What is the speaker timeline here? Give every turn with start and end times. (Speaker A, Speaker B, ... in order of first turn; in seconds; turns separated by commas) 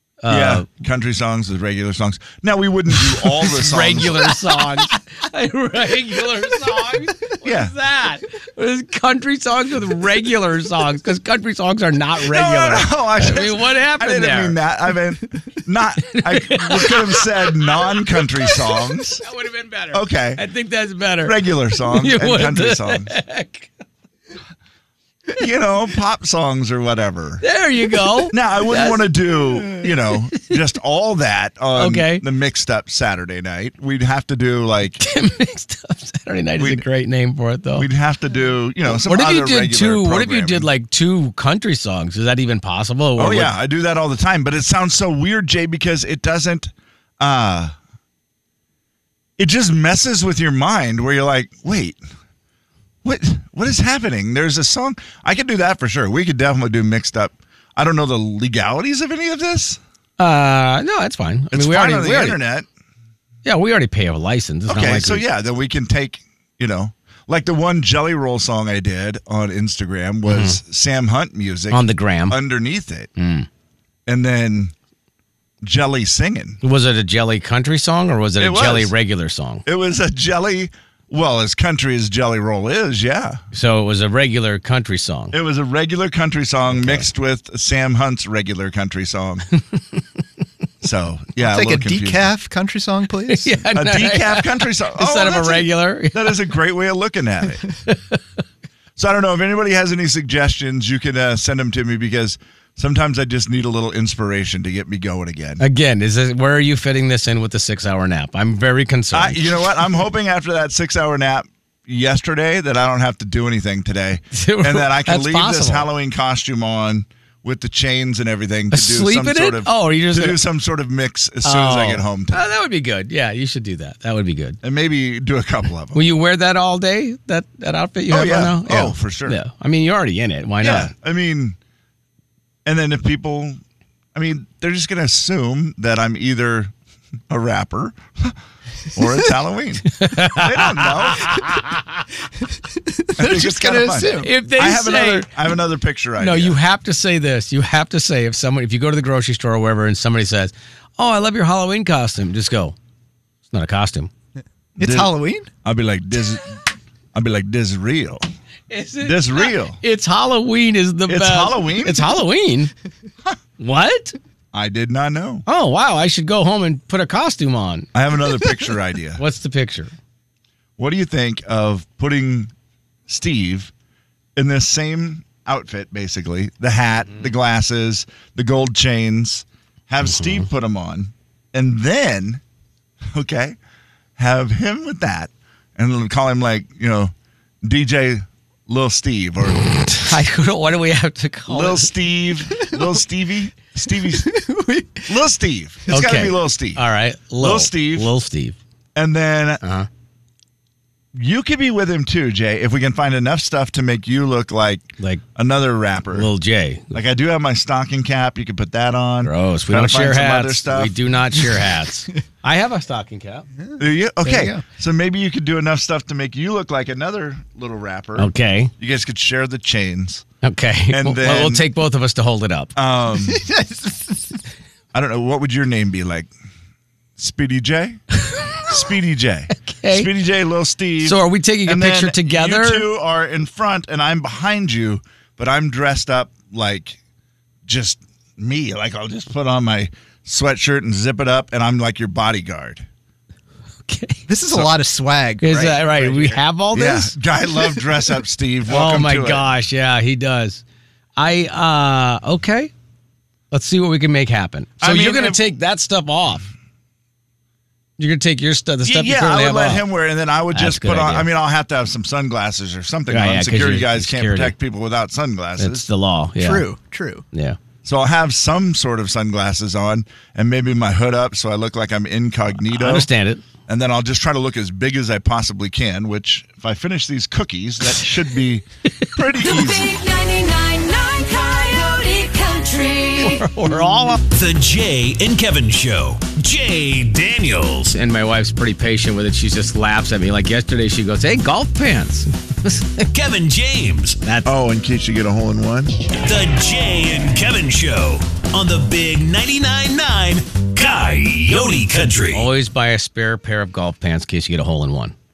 Speaker A: 0.2-0.7, Speaker B: 0.3-4.4, Speaker A: 3.0-14.6, Speaker B: 7.4-7.7, Speaker B: 12.2-19.2, Speaker A: 16.1-23.7, Speaker B: 19.9-20.4, Speaker B: 21.2-23.1, Speaker B: 25.4-27.4, Speaker A: 27.4-30.4, Speaker B: 28.3-35.0, Speaker A: 31.8-32.2, Speaker A: 35.0-37.9, Speaker B: 36.6-36.9, Speaker B: 37.8-40.7, Speaker A: 38.9-43.5, Speaker B: 43.2-47.8, Speaker B: 49.4-52.0, Speaker B: 53.0-59.8, Speaker A: 60.2-62.4, Speaker B: 61.5-62.7, Speaker A: 63.4-65.2, Speaker B: 64.7-73.1, Speaker A: 70.3-70.6, Speaker A: 71.7-72.4, Speaker A: 73.2-73.5, Speaker B: 74.1-74.7, Speaker B: 75.6-76.6, Speaker A: 76.6-79.7, Speaker B: 78.4-78.9, Speaker B: 79.7-83.4, Speaker A: 83.5-85.4, Speaker B: 85.3-89.5, Speaker A: 86.7-87.1, Speaker B: 90.8-92.3, Speaker C: 91.4-93.7, Speaker A: 93.3-96.4, Speaker B: 93.7-97.7, Speaker A: 97.9-98.2, Speaker B: 99.0-105.6, Speaker A: 105.6-109.6, Speaker B: 109.1-122.5, Speaker A: 114.3-115.9, Speaker A: 118.7-120.4, Speaker A: 121.4-124.6, Speaker B: 124.6-126.1, Speaker A: 125.9-130.9, Speaker B: 128.1-129.4, Speaker B: 130.6-131.6, Speaker B: 132.7-133.6, Speaker B: 134.1-136.7, Speaker B: 137.3-138.4, Speaker B: 138.9-141.4, Speaker A: 139.9-141.6, Speaker C: 142.8-144.3, Speaker B: 143.2-146.6, Speaker A: 144.2-145.3, Speaker A: 146.2-152.8, Speaker A: 153.5-154.1, Speaker B: 154.8-155.1, Speaker C: 154.8-155.5, Speaker B: 155.6-156.6, Speaker B: 157.1-158.2, Speaker A: 158.7-162.7, Speaker B: 159.0-159.8, Speaker B: 161.1-162.1, Speaker A: 163.6-164.2, Speaker B: 164.5-165.4, Speaker A: 165.5-167.9, Speaker B: 167.9-169.2, Speaker A: 169.2-169.9, Speaker B: 170.8-172.5, Speaker B: 173.1-173.7, Speaker B: 174.4-182.4, Speaker A: 180.1-180.4, Speaker B: 183.1-183.6, Speaker B: 184.2-190.2, Speaker A: 189.6-191.9, Speaker B: 191.5-194.3, Speaker C: 194.1-195.1, Speaker B: 195.1-196.8, Speaker A: 195.9-198.6, Speaker B: 197.4-198.1, Speaker B: 198.9-199.6, Speaker A: 199.6-199.9, Speaker B: 201.2-206.3, Speaker A: 206.1-207.0, Speaker B: 206.9-211.0, Speaker A: 209.2-213.5, Speaker C: 213.6-214.6, Speaker B: 213.8-220.2, Speaker A: 218.2-218.7, Speaker A: 220.4-222.7, Speaker B: 220.9-221.7, Speaker B: 222.8-223.5, Speaker C: 223.2-224.4, Speaker B: 224.9-226.3, Speaker B: 227.2-228.0, Speaker A: 228.3-228.7, Speaker B: 228.6-237.0, Speaker A: 229.6-230.1, Speaker A: 231.0-232.9, Speaker B: 237.7-242.9, Speaker A: 243.9-244.2, Speaker C: 244.3-246.4, Speaker A: 245.4-247.2, Speaker B: 246.7-249.5, Speaker A: 248.7-250.6, Speaker A: 251.2-252.7, Speaker A: 253.5-256.5, Speaker B: 254.8-255.4, Speaker A: 258.0-259.9, Speaker B: 258.8-265.9, Speaker A: 260.5-261.3, Speaker A: 263.1-264.6, Speaker A: 265.6-266.7, Speaker C: 266.4-267.2, Speaker A: 267.3-267.6, Speaker B: 267.8-273.1, Speaker A: 272.6-273.4, Speaker B: 273.7-280.0, Speaker D: 279.4-283.5, Speaker A: 283.2-284.2, Speaker E: 284.3-287.9, Speaker A: 287.9-293.1, Speaker E: 293.1-294.2, Speaker A: 294.2-294.5, Speaker B: 294.4-296.0, Speaker E: 296.1-302.5, Speaker A: 302.3-305.1